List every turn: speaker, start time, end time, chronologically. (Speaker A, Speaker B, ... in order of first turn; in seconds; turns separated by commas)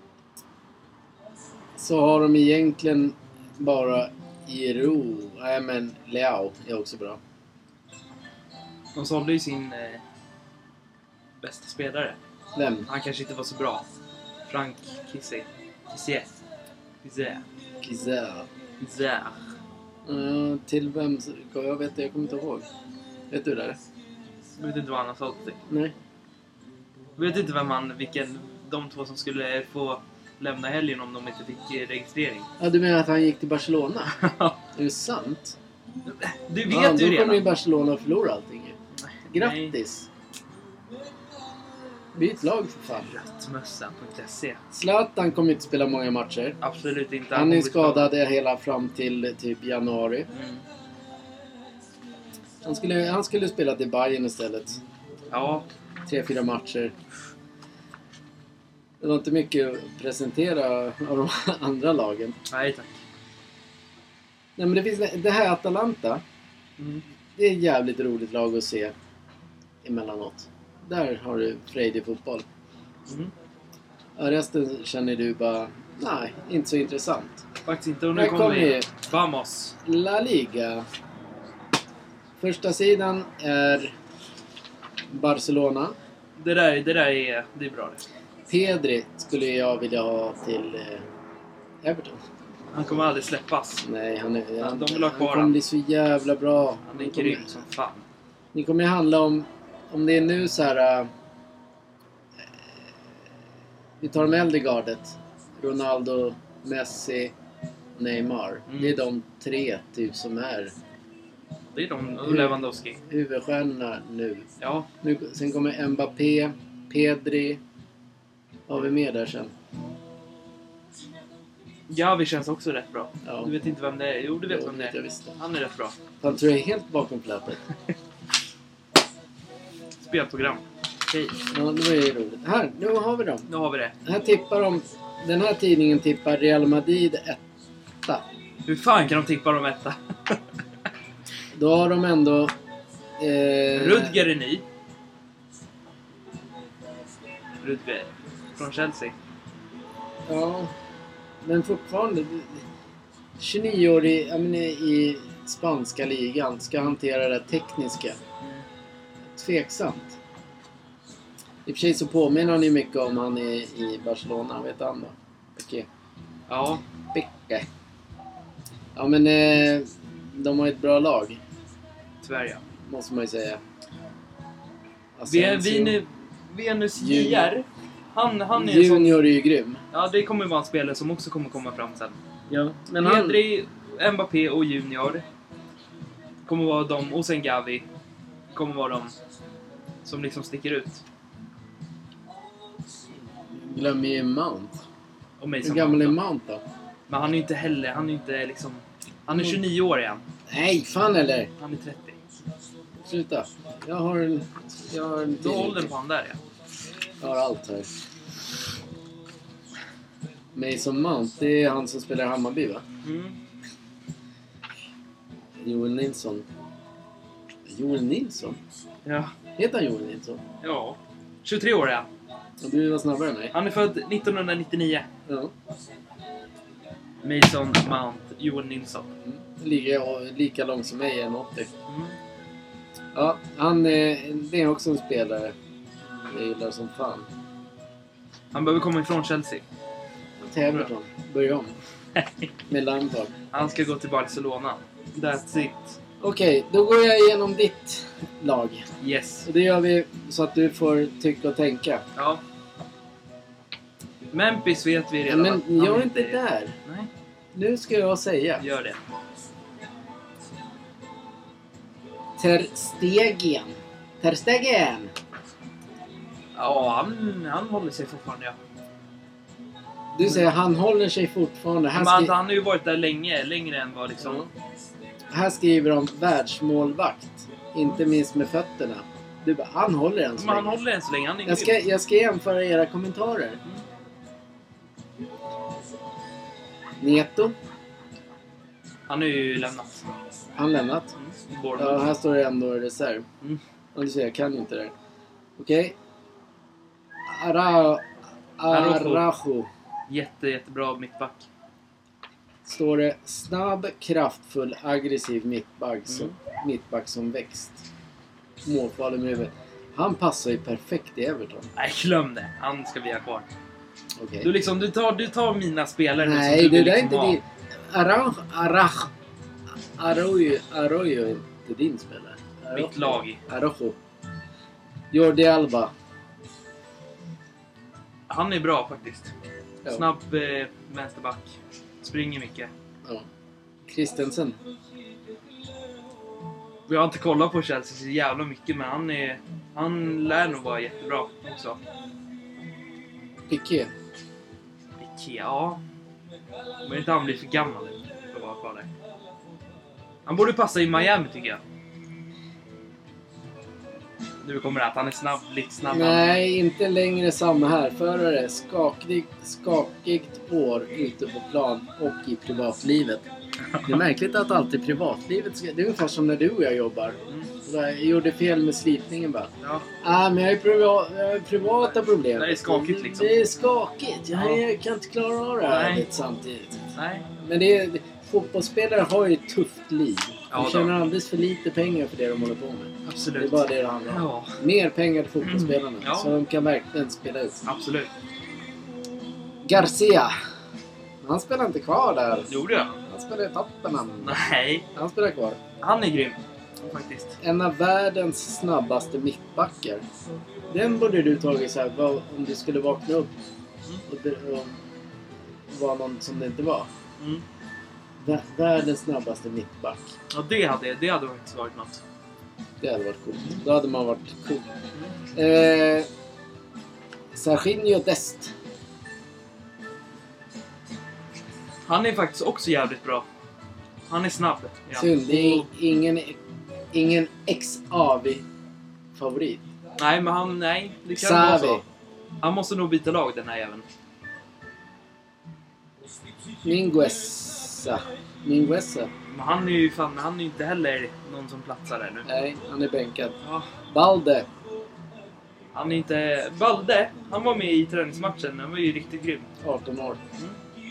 Speaker A: 1.8-7.2, Speaker B: 8.9-10.0, Speaker B: 11.4-12.2, Speaker A: 12.6-12.9, Speaker B: 12.9-13.8, Speaker B: 14.5-16.4, Speaker B: 17.0-17.4, Speaker A: 17.8-18.5, Speaker B: 18.8-19.4, Speaker A: 20.1-22.7, Speaker A: 23.3-23.8, Speaker B: 24.6-25.6, Speaker A: 25.7-25.9, Speaker B: 27.2-32.5, Speaker A: 32.6-34.2, Speaker B: 34.2-34.6, Speaker A: 34.8-35.6, Speaker B: 36.1-37.4, Speaker A: 36.7-38.8, Speaker B: 39.0-39.8, Speaker A: 39.3-40.1, Speaker A: 42.1-43.1, Speaker B: 43.0-44.6, Speaker A: 44.7-46.6, Speaker B: 46.6-48.1, Speaker A: 47.3-50.3, Speaker B: 50.3-50.6, Speaker A: 52.6-54.8, Speaker B: 55.3-55.7, Speaker A: 56.0-56.9, Speaker A: 59.0-62.4, Speaker B: 62.5-63.0, Speaker A: 64.6-66.2, Speaker A: 67.4-68.9, Speaker A: 69.8-72.5, Speaker B: 73.1-73.3, Speaker A: 74.2-77.4, Speaker B: 77.7-79.8, Speaker A: 78.2-78.9, Speaker A: 79.8-80.9, Speaker A: 82.4-84.0, Speaker A: 85.1-86.0, Speaker B: 86.4-88.0, Speaker A: 88.5-91.0, Speaker A: 91.8-92.2, Speaker B: 92.7-93.8, Speaker A: 93.8-97.5, Speaker B: 94.6-95.6, Speaker B: 96.9-98.0, Speaker A: 98.5-101.1, Speaker A: 104.0-107.3, Speaker A: 108.0-110.7, Speaker B: 108.7-109.0, Speaker B: 111.8-113.0, Speaker A: 112.2-114.5, Speaker B: 114.6-114.9, Speaker A: 115.0-117.6, Speaker A: 118.7-119.5, Speaker B: 121.9-126.0, Speaker A: 123.2-123.5, Speaker A: 124.5-125.4, Speaker A: 126.2-127.6, Speaker B: 130.0-131.4, Speaker A: 131.5-133.5, Speaker B: 133.5-133.9, Speaker A: 134.1-137.4, Speaker B: 138.7-140.4, Speaker A: 141.5-142.5, Speaker A: 143.2-144.2, Speaker B: 143.7-144.6, Speaker B: 147.6-149.1, Speaker A: 150.3-150.7, Speaker A: 151.4-152.6, Speaker A: 153.4-158.2, Speaker A: 159.3-160.2, Speaker A: 161.7-165.9, Speaker B: 166.5-166.8, Speaker A: 167.1-167.7, Speaker A: 169.0-171.4, Speaker B: 172.2-172.6, Speaker A: 172.8-173.6, Speaker A: 175.2-176.0, Speaker B: 175.3-179.2, Speaker A: 177.0-177.5, Speaker A: 178.6-179.8, Speaker B: 179.9-182.2, Speaker A: 182.5-183.4, Speaker B: 183.0-185.2, Speaker B: 186.4-187.9, Speaker B: 188.5-189.2, Speaker B: 190.1-191.0, Speaker A: 193.4-194.8, Speaker B: 195.4-196.2, Speaker A: 195.6-196.6, Speaker B: 197.1-200.2, Speaker A: 199.3-199.6, Speaker A: 200.5-201.5, Speaker B: 201.6-202.2, Speaker A: 203.0-205.9, Speaker B: 205.4-206.4, Speaker A: 207.2-207.9, Speaker A: 210.6-212.8, Speaker B: 213.0-213.4, Speaker A: 215.6-216.5, Speaker A: 217.7-218.6, Speaker B: 219.1-219.3, Speaker A: 219.6-220.4, Speaker B: 220.6-222.1, Speaker A: 222.6-223.5, Speaker B: 223.5-225.1, Speaker A: 225.3-225.5, Speaker B: 227.2-229.1, Speaker A: 229.2-231.7, Speaker B: 231.9-232.2, Speaker A: 233.1-235.6, Speaker A: 236.2-237.3, Speaker B: 238.5-239.7, Speaker A: 240.4-241.8, Speaker B: 242.2-242.5, Speaker A: 242.7-243.3, Speaker B: 243.5-246.0, Speaker A: 246.2-248.9, Speaker B: 249.0-249.5, Speaker A: 249.4-252.0, Speaker B: 252.2-252.4, Speaker B: 254.3-257.1, Speaker A: 255.3-256.8, Speaker A: 257.6-258.6, Speaker B: 258.6-259.0, Speaker A: 262.4-265.1, Speaker B: 266.6-268.6, Speaker A: 270.1-272.3, Speaker B: 271.9-274.5, Speaker A: 274.2-274.5, Speaker A: 275.3-280.8, Speaker B: 280.4-281.7, Speaker A: 281.5-283.6, Speaker A: 287.0-287.6, Speaker B: 289.1-290.1, Speaker A: 290.6-291.1, Speaker B: 291.2-292.1, Speaker A: 291.8-293.2, Speaker A: 293.9-294.9, Speaker A: 295.6-295.9, Speaker A: 297.3-298.1, Speaker A: 298.6-299.7, Speaker B: 298.7-299.2, Speaker B: 300.1-301.5, Speaker A: 302.6-307.9, Speaker B: 306.1-306.4, Speaker A: 308.6-311.7, Speaker B: 311.8-313.5, Speaker A: 314.2-314.5, Speaker B: 314.4-317.4, Speaker A: 316.2-319.1, Speaker A: 320.0-324.0, Speaker B: 322.7-323.4, Speaker A: 325.1-325.9, Speaker B: 328.3-329.3, Speaker B: 329.9-332.7, Speaker A: 333.9-334.6, Speaker B: 336.9-341.8, Speaker A: 343.5-343.9, Speaker B: 345.0-345.8, Speaker B: 346.8-348.9, Speaker B: 350.3-351.6, Speaker B: 354.4-356.2, Speaker A: 355.9-363.2, Speaker B: 363.7-364.0, Speaker A: 363.9-376.9, Speaker B: 372.3-373.5, Speaker B: 374.4-374.6, Speaker B: 375.7-376.1, Speaker B: 376.9-377.3, Speaker A: 377.4-387.7, Speaker B: 380.5-380.9, Speaker B: 383.1-384.6, Speaker B: 385.4-386.4, Speaker B: 387.7-388.1, Speaker A: 389.6-390.4, Speaker A: 391.2-392.5, Speaker B: 392.5-393.0, Speaker A: 393.1-394.4, Speaker B: 394.2-394.9, Speaker A: 394.9-395.6, Speaker B: 395.8-397.4, Speaker A: 397.4-400.0, Speaker A: 400.7-403.3, Speaker A: 404.1-404.8, Speaker A: 405.7-406.9, Speaker B: 407.2-407.4, Speaker A: 408.2-410.1, Speaker B: 410.3-412.0, Speaker A: 412.8-414.7, Speaker A: 415.3-416.1, Speaker A: 417.3-418.5, Speaker B: 421.9-423.3, Speaker B: 424.1-425.7, Speaker A: 424.9-426.4, Speaker A: 426.9-428.4, Speaker A: 429.1-429.6, Speaker B: 430.0-431.8, Speaker A: 431.1-431.8, Speaker B: 432.4-433.9, Speaker A: 436.6-439.1, Speaker B: 439.3-442.3, Speaker A: 442.3-443.4, Speaker B: 443.4-443.7, Speaker A: 443.9-444.5, Speaker B: 445.7-449.5, Speaker A: 449.6-450.2